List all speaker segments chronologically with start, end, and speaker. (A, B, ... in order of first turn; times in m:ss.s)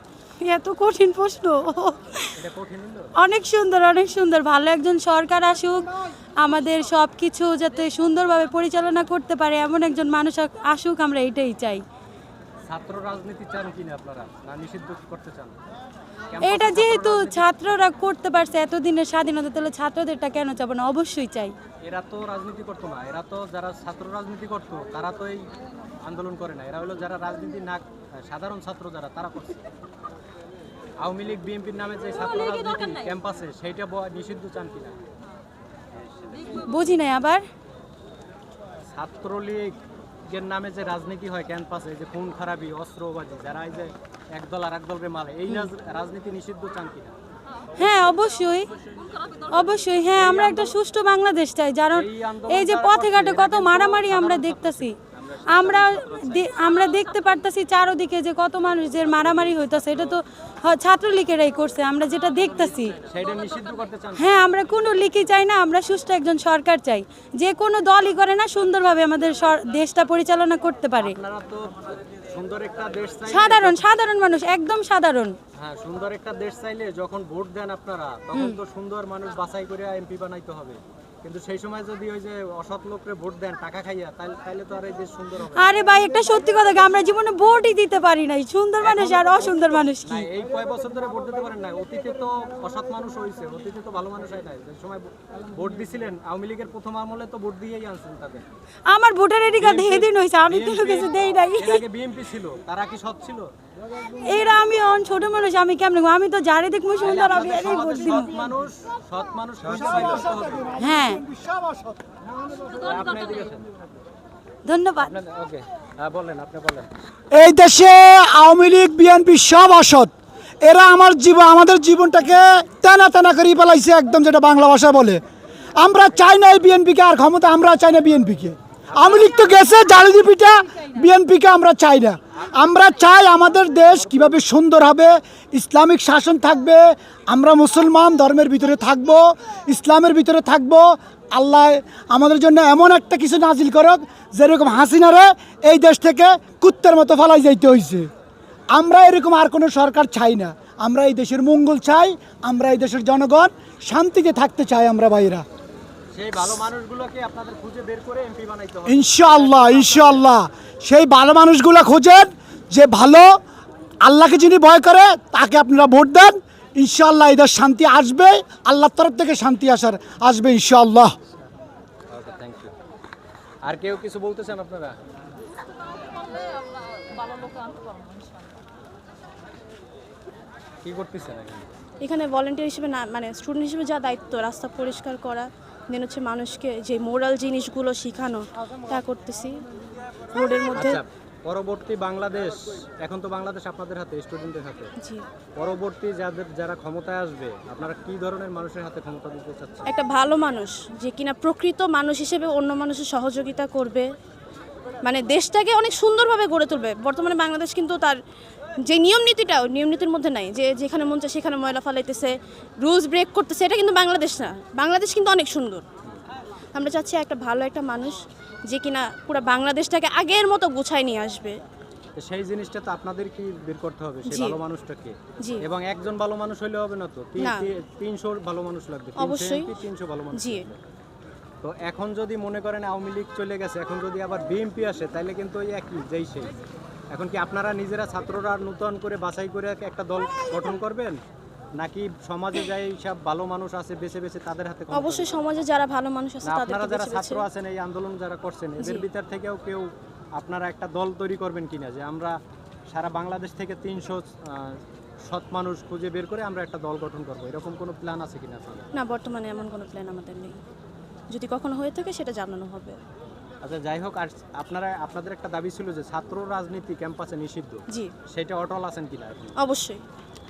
0:00.4-0:02.3 A
0:02.3-0:03.1 B
0:03.2-0:11.8 A
0:12.7-0:15.6 B
0:16.3-0:17.4 B
0:16.4-0:21.5 A
0:21.8-0:25.5 B
0:26.0-0:29.6 B
0:31.0-0:35.0 B
0:36.3-0:36.6 B
0:36.5-0:37.4 A
0:38.9-0:47.1 B
0:47.8-0:48.7 A
0:49.5-0:55.0 A
0:50.2-0:50.8 B
0:51.9-0:56.4 B
0:55.5-1:03.0 A
0:59.0-1:00.2 B
1:03.0-1:04.4 B
1:04.2-1:11.2 A
1:11.0-1:13.8 B
1:13.3-1:15.3 A
1:15.5-1:25.7 B
1:25.5-1:30.3 A
1:28.8-1:38.4 B
1:38.9-1:41.8 A
1:39.6-1:43.5 B
1:44.2-1:48.3 A
1:47.0-1:50.7 B
1:49.7-1:52.0 C
1:50.8-1:51.2 A
1:52.5-1:53.7 B
1:54.6-1:55.1 A
1:55.0-1:56.9 B
1:57.3-2:05.2 C
2:05.7-2:28.1 C
2:08.9-2:09.4 B
2:28.7-2:35.4 C
2:36.1-2:40.3 B
2:38.8-2:43.4 C
2:44.0-2:51.1 C
2:52.1-2:52.7 B
2:53.6-2:55.0 B
3:00.8-3:01.7 B
3:02.0-3:09.5 D
3:10.3-3:11.0 D
3:10.7-3:14.9 B
3:15.6-3:20.1 B
3:19.9-3:24.1 D
3:25.0-3:28.2 D
3:28.8-3:35.8 D
3:36.7-3:38.2 D
3:38.7-3:41.6 D
3:42.1-3:50.8 B
3:44.3-3:44.6 D
3:47.4-3:47.7 D
3:49.2-3:49.7 D
3:50.3-3:50.6 D
3:51.6-3:56.5 B
3:57.1-4:01.2 B
4:01.8-4:05.4 B
4:04.9-4:07.4 D
4:06.4-4:12.4 B
4:08.8-4:09.0 D
4:12.9-4:18.9 B
4:18.9-4:20.6 D
4:21.3-4:23.0 D
4:23.6-4:29.6 B
4:29.6-4:30.0 D